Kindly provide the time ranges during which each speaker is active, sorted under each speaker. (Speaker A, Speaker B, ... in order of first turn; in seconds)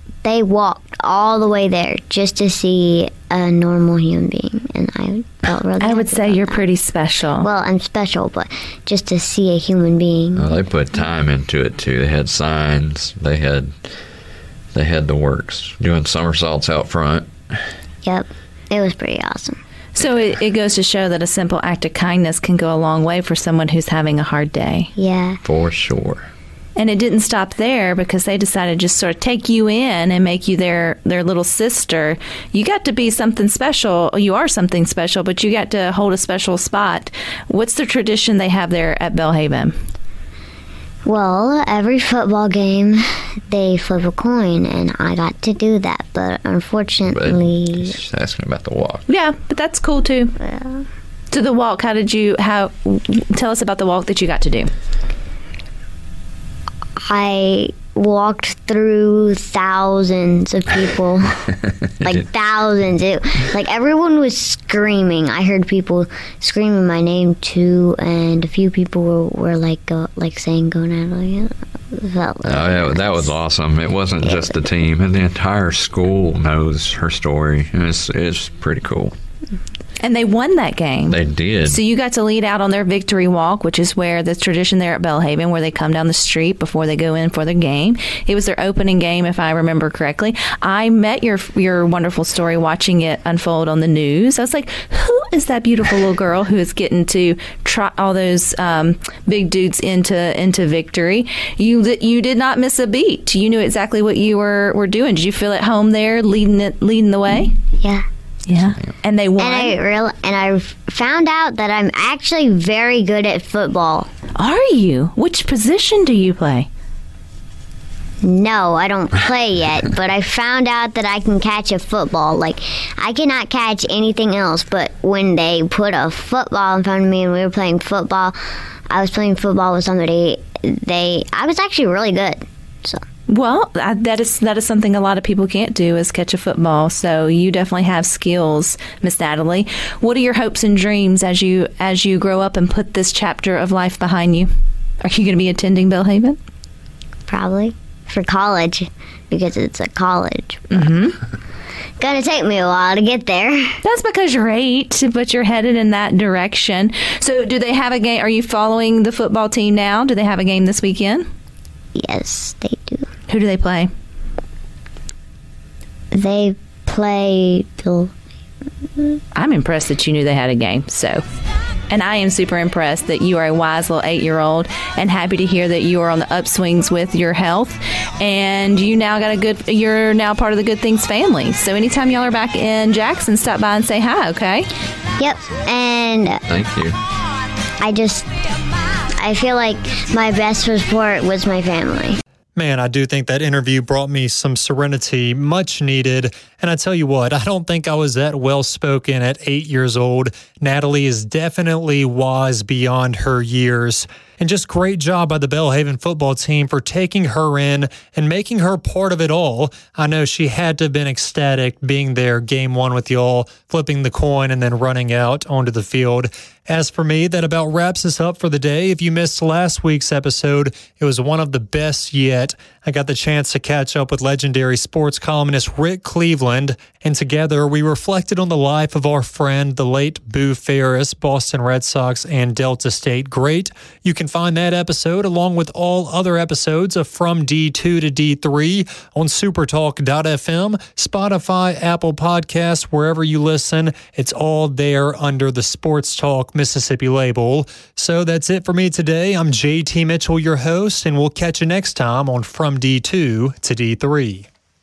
Speaker A: 0.2-6.6, 7.4-10.5, 18.0-19.6, 24.9-25.4, 41.0-48.0, 50.4-50.9, 57.0-61.5, 62.0-73.3, 74.2-74.5, 107.8-108.1, 109.4-114.1, 118.2-128.4, 128.9-133.0, 147.3-150.8, 152.0-153.8, 161.9-163.1, 166.1-168.1, 185.2-186.4, 187.8-188.3, 189.2-192.2
Speaker B: 5.8-7.5, 20.0-24.9, 26.8-39.8, 49.1-50.4, 51.3-54.7, 80.0-107.5, 108.5-109.8, 114.4-116.7, 133.3-144.5, 145.0-146.4, 150.7-151.2, 153.8-161.3, 163.3-163.9, 169.3-171.2, 171.9-184.7
Speaker C: 10.3-14.0, 14.7-17.6, 25.4-26.3, 47.1-49.1, 72.5-79.2, 81.1-81.8, 186.5-187.0
Speaker D: 192.6-254.5